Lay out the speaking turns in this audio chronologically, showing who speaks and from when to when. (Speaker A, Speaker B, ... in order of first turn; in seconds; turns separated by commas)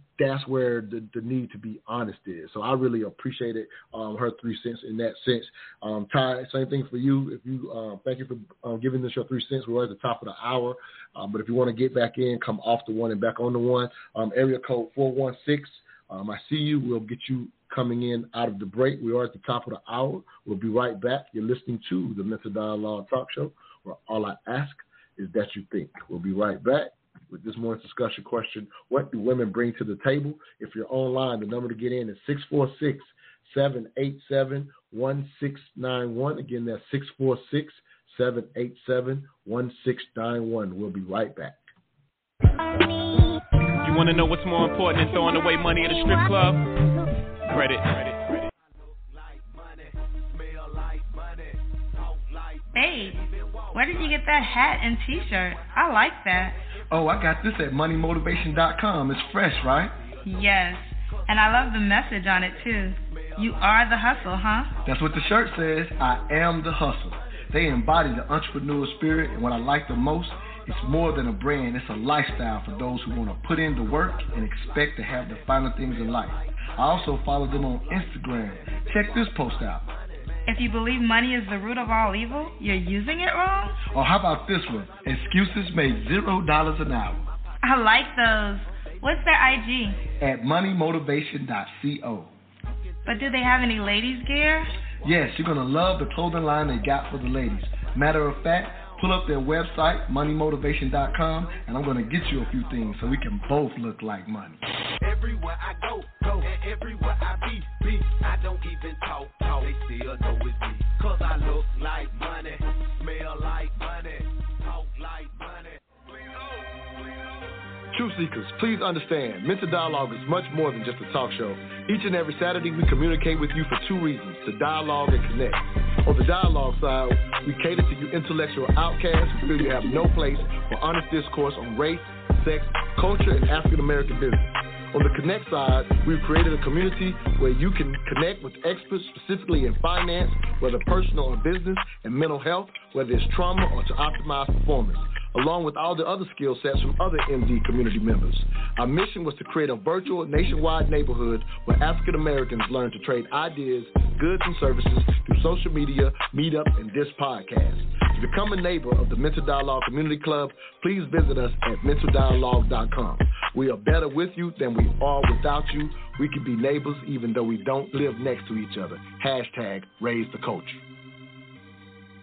Speaker A: 0.2-41.6, Speaker B: 43.8-46.6, Speaker B: 47.5-48.5, Speaker C: 48.6-60.6, Speaker D: 52.7-53.2, Speaker D: 53.7-56.6, Speaker E: 56.9-59.9, Speaker D: 60.2-64.8, Speaker C: 61.3-64.3, Speaker E: 64.9-79.8, Speaker C: 64.9-68.3, Speaker C: 69.0-80.5, Speaker D: 80.5-83.8, Speaker E: 83.9-87.2, Speaker C: 84.2-87.2, Speaker D: 87.6-90.0, Speaker E: 90.2-92.3, Speaker D: 93.0-94.7, Speaker C: 93.1-93.4, Speaker E: 95.0-104.6, Speaker C: 95.1-103.8, Speaker C: 105.0-117.6, Speaker E: 117.9-170.8